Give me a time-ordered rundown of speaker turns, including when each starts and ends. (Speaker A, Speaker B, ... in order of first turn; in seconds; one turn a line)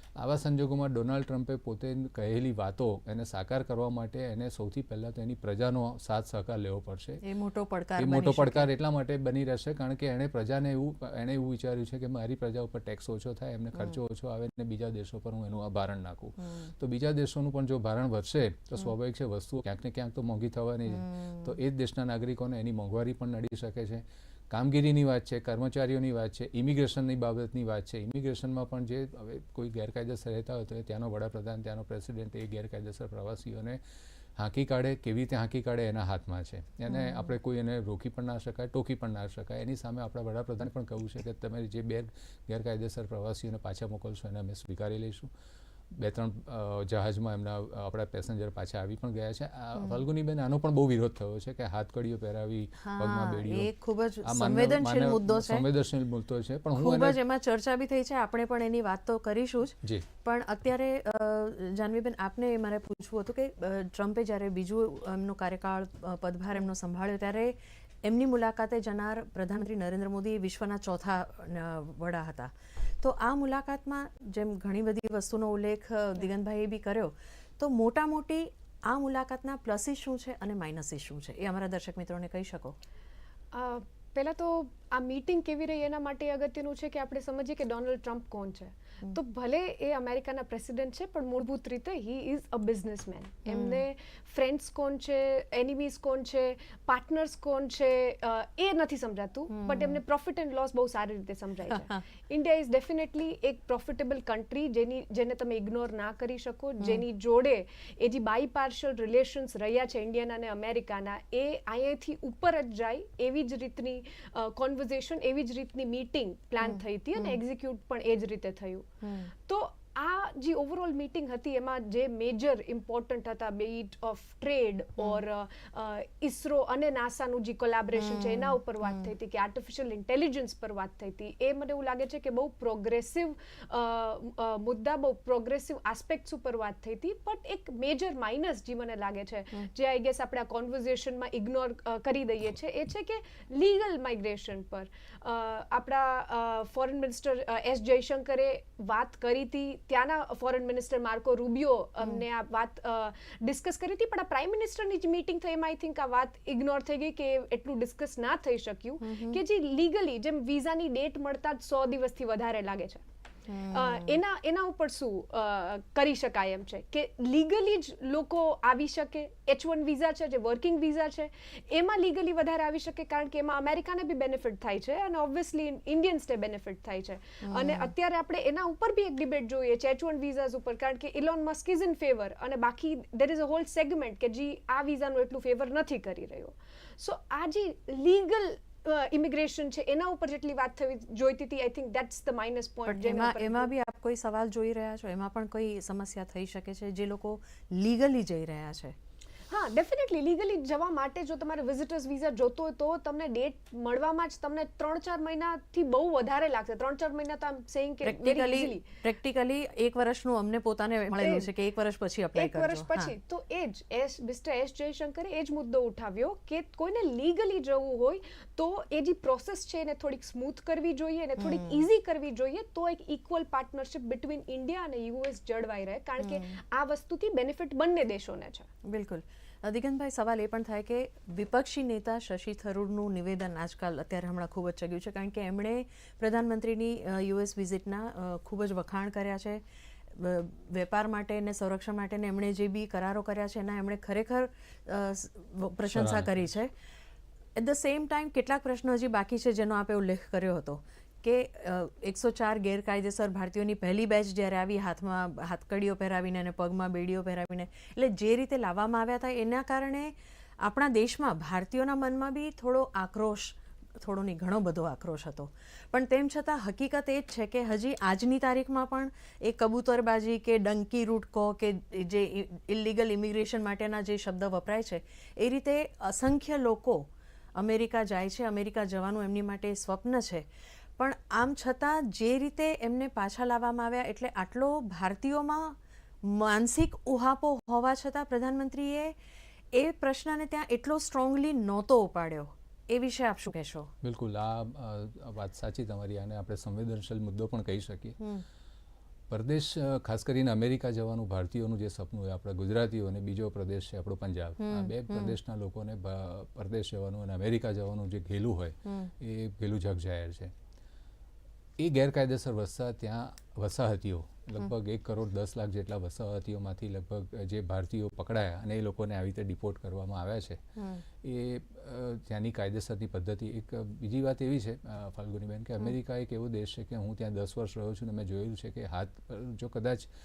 Speaker A: 0.2-7.2
Speaker B: 7.2-8.7
Speaker A: 8.0-33.8
Speaker B: 16.4-16.7
Speaker B: 20.9-21.5
Speaker A: 34.4-45.3
Speaker B: 36.9-37.2
Speaker A: 45.9-53.7
Speaker B: 52.8-55.7
Speaker A: 54.2-57.2
Speaker B: 56.8-82.8
Speaker C: 83.5-118.9
Speaker B: 93.5-93.8
Speaker B: 99.5-100.0
Speaker B: 101.7-102.0
Speaker B: 116.6-117.4
Speaker B: 119.0-119.3
Speaker C: 119.5-163.0
Speaker B: 128.0-129.1
Speaker B: 159.0-159.4
Speaker B: 163.5-164.2
Speaker C: 163.7-193.7
Speaker B: 177.4-177.9
Speaker B: 192.9-198.9
Speaker C: 199.5-208.9
Speaker B: 208.0-213.1
Speaker C: 211.2-211.5
Speaker C: 212.4-228.7
Speaker B: 221.4-221.8
Speaker B: 228.9-239.6
Speaker B: 240.1-246.7
Speaker A: 245.9-246.5
Speaker B: 247.6-280.5
Speaker B: 281.0-289.1
Speaker B: 289.7-293.9
Speaker A: 294.0-298.2
Speaker A: 299.3-310.5
Speaker B: 304.6-305.4
Speaker B: 308.9-309.1
Speaker A: 311.8-320.6
Speaker B: 320.8-321.1
Speaker A: 321.2-330.1